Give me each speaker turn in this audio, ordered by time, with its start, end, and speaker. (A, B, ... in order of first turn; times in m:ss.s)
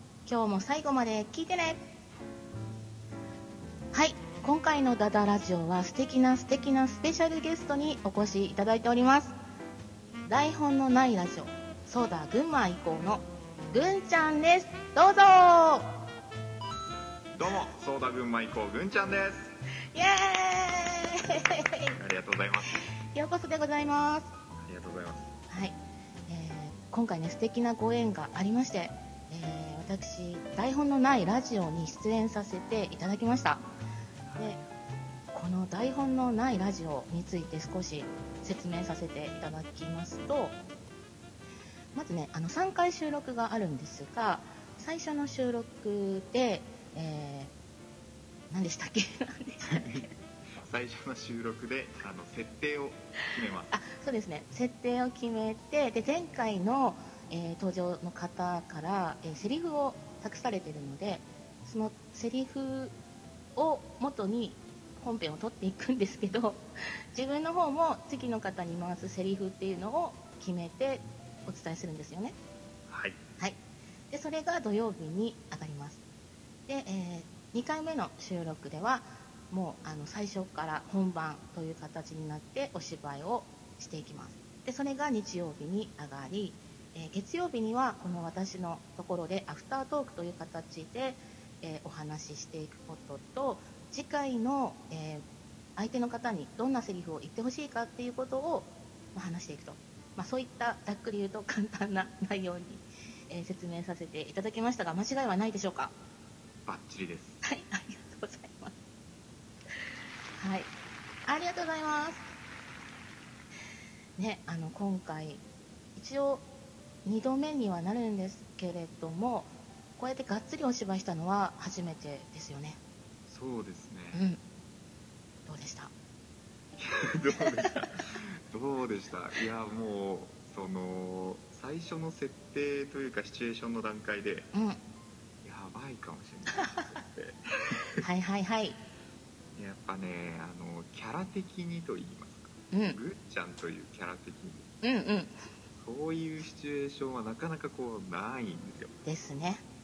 0:00.2-0:01.8 A
0:03.9-0:09.4 A
0:10.2-0:15.9 A
0:17.3-0:19.5 B
0:19.9-0:22.0 A
0:21.9-0:22.8 B
0:23.1-0:24.3 A
0:24.6-0:25.3 B
0:25.5-0:33.6 A
0:34.2-0:34.7 B
0:35.3-0:40.6 A
0:41.9-0:47.5 A
0:48.5-0:50.1 A
0:49.6-0:53.7 B
0:53.7-1:02.9 A
1:03.6-1:12.4 A
1:12.9-1:13.2 B
1:14.1-1:16.0 A
1:16.7-1:35.2 A
1:35.8-1:45.9 A
1:46.6-1:47.4 B
1:47.4-1:48.7 A
1:50.4-1:50.7 A
1:51.2-1:52.2 A
1:54.2-1:55.4 A
1:56.0-1:56.5 A
1:57.0-2:02.8 A
2:03.3-2:04.2 B
2:04.1-2:04.4 A
2:05.4-2:05.9 A
2:06.8-2:14.5 B
2:07.4-2:07.7 A
2:14.5-2:14.8 A
2:15.4-2:18.0 B
2:18.0-2:18.8 A
2:19.5-2:24.7 B
2:22.7-2:23.0 A
2:24.8-2:25.4 A
2:25.8-2:28.9 B
2:29.0-2:29.6 A